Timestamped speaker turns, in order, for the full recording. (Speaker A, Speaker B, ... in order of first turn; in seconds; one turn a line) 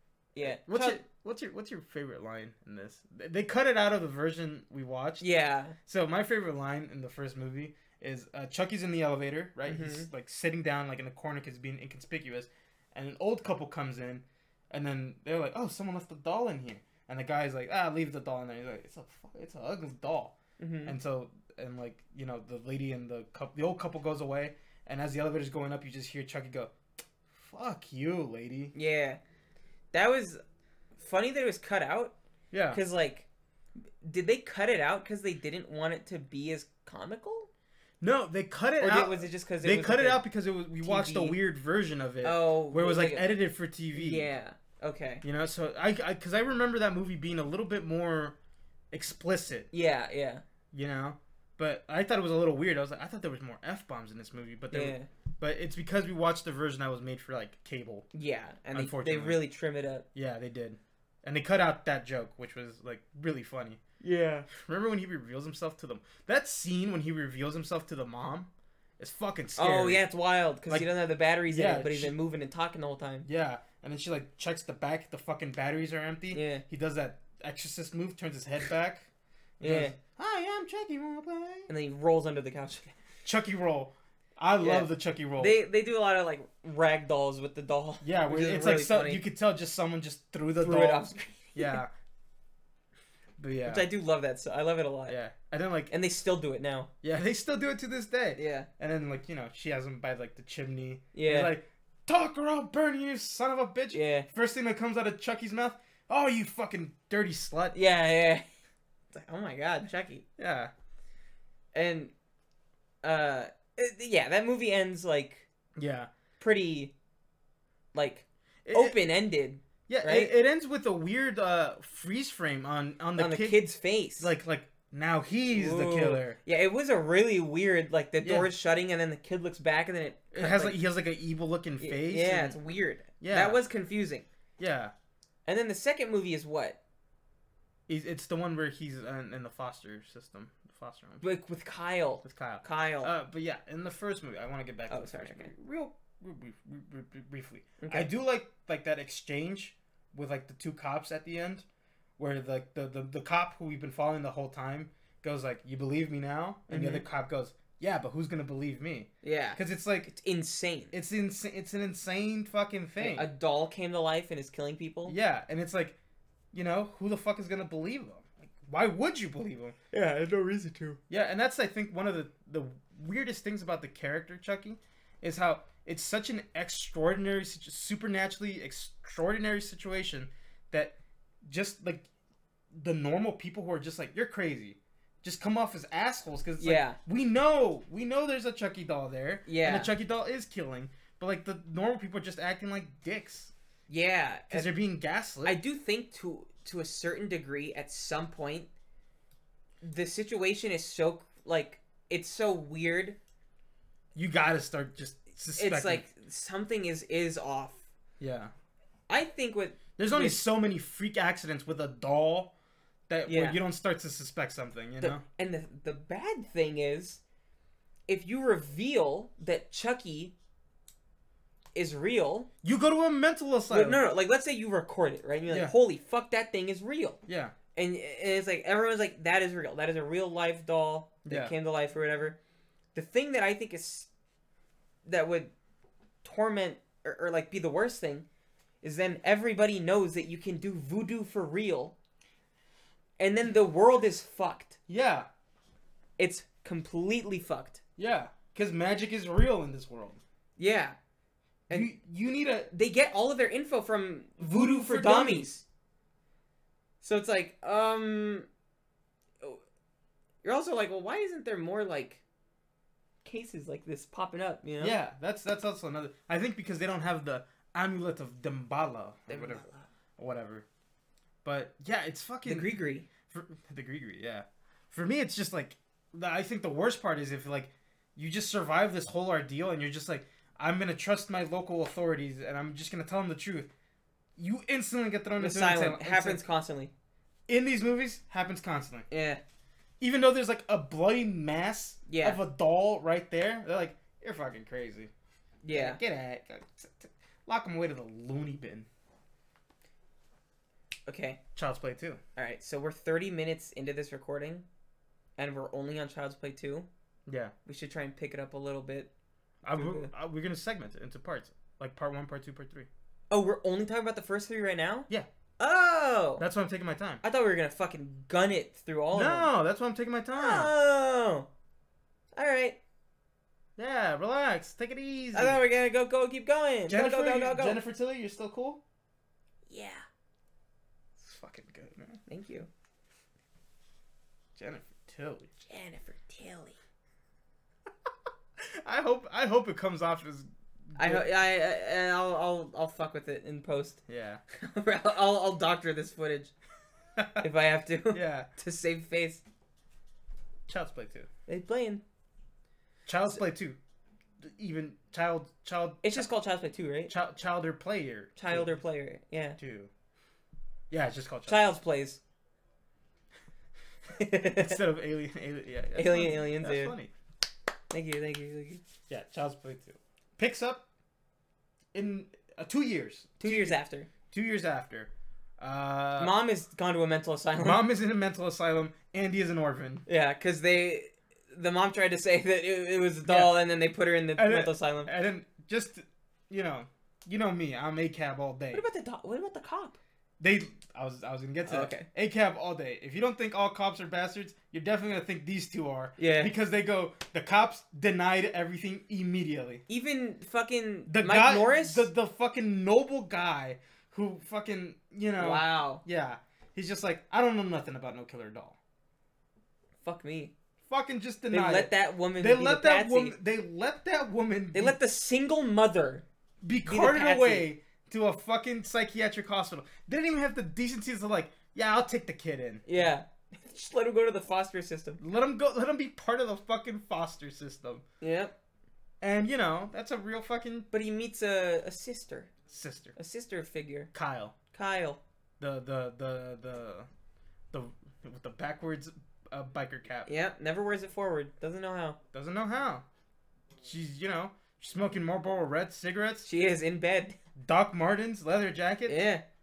Speaker A: 0.3-1.0
Speaker B: 0.4-5.3
Speaker A: 5.2-5.8
Speaker B: 5.8-26.7
Speaker A: 9.7-10.1
Speaker A: 20.6-21.0
Speaker B: 27.3-28.7
Speaker A: 28.7-29.2
Speaker A: 29.9-30.4
Speaker A: 31.0-32.1
Speaker B: 32.5-32.8
Speaker A: 32.7-33.3
Speaker A: 34.0-37.5
Speaker B: 38.0-44.3
Speaker A: 38.8-40.2
Speaker A: 40.8-41.4
Speaker A: 42.2-43.3
Speaker A: 43.9-45.2
Speaker B: 45.2-48.4
Speaker B: 48.9-49.7
Speaker A: 49.7-50.4
Speaker B: 50.7-58.1
Speaker A: 54.7-55.1
Speaker A: 58.1-60.1
Speaker B: 58.7-59.4
Speaker B: 60.1-63.8
Speaker A: 64.0-64.5
Speaker B: 64.5-70.0
Speaker A: 69.6-73.3
Speaker B: 71.5-72.2
Speaker B: 73.3-79.1
Speaker A: 76.3-76.6
Speaker B: 79.6-81.7
Speaker A: 79.6-80.0
Speaker A: 81.7-83.0
Speaker B: 83.2-85.6
Speaker A: 84.6-89.2
Speaker B: 88.0-91.9
Speaker A: 90.6-91.8
Speaker B: 93.4-93.9
Speaker A: 93.7-95.2
Speaker B: 95.1-95.9
Speaker A: 95.9-96.9
Speaker B: 97.0-107.8
Speaker A: 98.4-98.7
Speaker A: 101.1-101.5
Speaker A: 103.9-104.3
Speaker A: 107.7-108.5
Speaker A: 109.1-110.2
Speaker B: 110.4-110.7
Speaker A: 111.7-112.1
Speaker A: 113.0-115.5
Speaker B: 115.8-116.1
Speaker A: 116.4-116.9
Speaker A: 117.9-120.3
Speaker B: 118.7-119.0
Speaker B: 119.9-123.6
Speaker A: 123.2-124.3
Speaker B: 124.2-126.4
Speaker A: 125.5-130.8
Speaker B: 128.2-128.5
Speaker B: 130.3-132.6
Speaker A: 131.8-134.3
Speaker B: 133.2-133.6
Speaker B: 134.6-134.9
Speaker A: 135.5-136.8
Speaker B: 137.9-141.3
Speaker A: 141.2-143.1
Speaker B: 142.2-151.7
Speaker A: 144.9-145.5
Speaker A: 147.8-148.1
Speaker B: 152.2-160.1
Speaker A: 156.7-157.1
Speaker A: 159.2-160.9
Speaker B: 160.9-163.3
Speaker A: 163.0-165.2
Speaker B: 165.1-166.0
Speaker B: 166.5-169.8
Speaker A: 169.9-171.0
Speaker B: 171.1-182.1
Speaker B: 182.7-193.5
Speaker A: 186.6-187.0
Speaker A: 189.5-189.9
Speaker A: 193.9-194.7
Speaker B: 194.5-195.6
Speaker A: 195.4-198.7
Speaker A: 199.8-203.2
Speaker B: 204.2-206.1
Speaker A: 205.6-207.8
Speaker B: 208.2-208.5
Speaker A: 209.1-210.4
Speaker B: 210.0-212.5
Speaker B: 213.1-215.2
Speaker A: 213.3-213.6
Speaker A: 215.0-217.2
Speaker A: 218.1-220.3
Speaker A: 221.8-222.5
Speaker B: 222.6-224.1
Speaker A: 223.7-227.2
Speaker B: 225.5-225.7
Speaker B: 227.3-227.6
Speaker A: 227.7-232.4
Speaker B: 231.3-231.5
Speaker A: 232.9-234.1
Speaker A: 235.1-235.5
Speaker A: 236.2-238.3
Speaker A: 238.8-241.9
Speaker A: 243.2-244.8
Speaker B: 244.9-245.3
Speaker A: 246.2-247.8
Speaker B: 248.0-250.2
Speaker A: 250.6-251.0
Speaker B: 251.7-252.7
Speaker A: 252.7-255.6
Speaker B: 254.4-255.5
Speaker A: 257.0-258.5
Speaker A: 260.4-262.2
Speaker A: 263.2-265.0
Speaker B: 264.8-269.6
Speaker A: 269.3-269.9
Speaker B: 270.2-270.7
Speaker B: 271.4-272.7
Speaker A: 272.4-273.1
Speaker B: 273.3-283.7
Speaker B: 284.4-286.4
Speaker A: 285.4-286.9
Speaker B: 287.5-289.1
Speaker A: 289.1-289.4
Speaker B: 290.0-295.1
Speaker A: 292.1-292.4
Speaker A: 295.6-296.0
Speaker B: 295.7-298.9
Speaker A: 301.1-301.4
Speaker B: 301.6-302.2
Speaker A: 302.4-304.7
Speaker A: 305.4-306.9
Speaker B: 307.3-307.5
Speaker A: 307.7-309.1
Speaker B: 309.6-312.9
Speaker A: 309.7-310.1
Speaker A: 313.3-316.4
Speaker B: 316.4-317.2
Speaker A: 317.2-319.5
Speaker B: 319.1-320.7
Speaker A: 320.4-321.5
Speaker A: 322.4-322.8
Speaker B: 323.8-325.6
Speaker A: 325.3-327.8
Speaker B: 326.9-328.8
Speaker A: 329.7-330.1
Speaker B: 331.2-332.2
Speaker A: 332.3-332.7
Speaker B: 334.6-335.5
Speaker A: 335.6-336.8
Speaker B: 338.6-341.3
Speaker A: 341.0-346.5
Speaker B: 344.1-344.4
Speaker B: 347.2-347.5
Speaker A: 347.4-349.4
Speaker B: 348.1-348.5
Speaker B: 350.7-351.3
Speaker A: 351.5-352.0
Speaker B: 353.1-353.8
Speaker B: 354.4-356.3
Speaker A: 356.0-357.1
Speaker B: 357.1-358.8
Speaker A: 358.4-359.6
Speaker B: 359.6-359.9
Speaker B: 360.9-361.8
Speaker A: 361.5-362.2
Speaker A: 364.1-364.8
Speaker B: 364.5-367.1
Speaker A: 365.9-366.9
Speaker A: 367.9-368.8
Speaker B: 369.1-370.9
Speaker B: 371.9-373.8
Speaker A: 373.4-374.1
Speaker B: 374.3-376.3
Speaker A: 376.2-377.8
Speaker B: 377.6-380.1
Speaker A: 380.1-385.1
Speaker B: 383.3-383.6
Speaker B: 384.4-388.9
Speaker A: 388.7-390.0
Speaker B: 390.4-399.8
Speaker A: 391.7-392.1
Speaker A: 396.2-396.5
Speaker A: 399.9-402.1
Speaker B: 401.1-408.8
Speaker A: 405.4-406.0
Speaker A: 410.0-410.5
Speaker B: 410.9-415.0
Speaker A: 411.5-413.4
Speaker A: 414.7-416.2
Speaker B: 416.6-422.9
Speaker A: 416.9-417.7
Speaker A: 422.9-425.2
Speaker B: 425.2-428.0
Speaker A: 428.2-428.6
Speaker B: 429.2-430.9
Speaker A: 430.9-432.5
Speaker B: 432.7-433.1
Speaker A: 433.2-434.1
Speaker B: 434.1-434.6
Speaker A: 434.7-435.2
Speaker B: 435.6-437.1
Speaker B: 437.7-440.3
Speaker A: 440.3-442.2
Speaker B: 442.3-443.1
Speaker B: 443.8-446.5
Speaker A: 446.4-447.4
Speaker B: 447.6-449.2
Speaker A: 449.1-449.4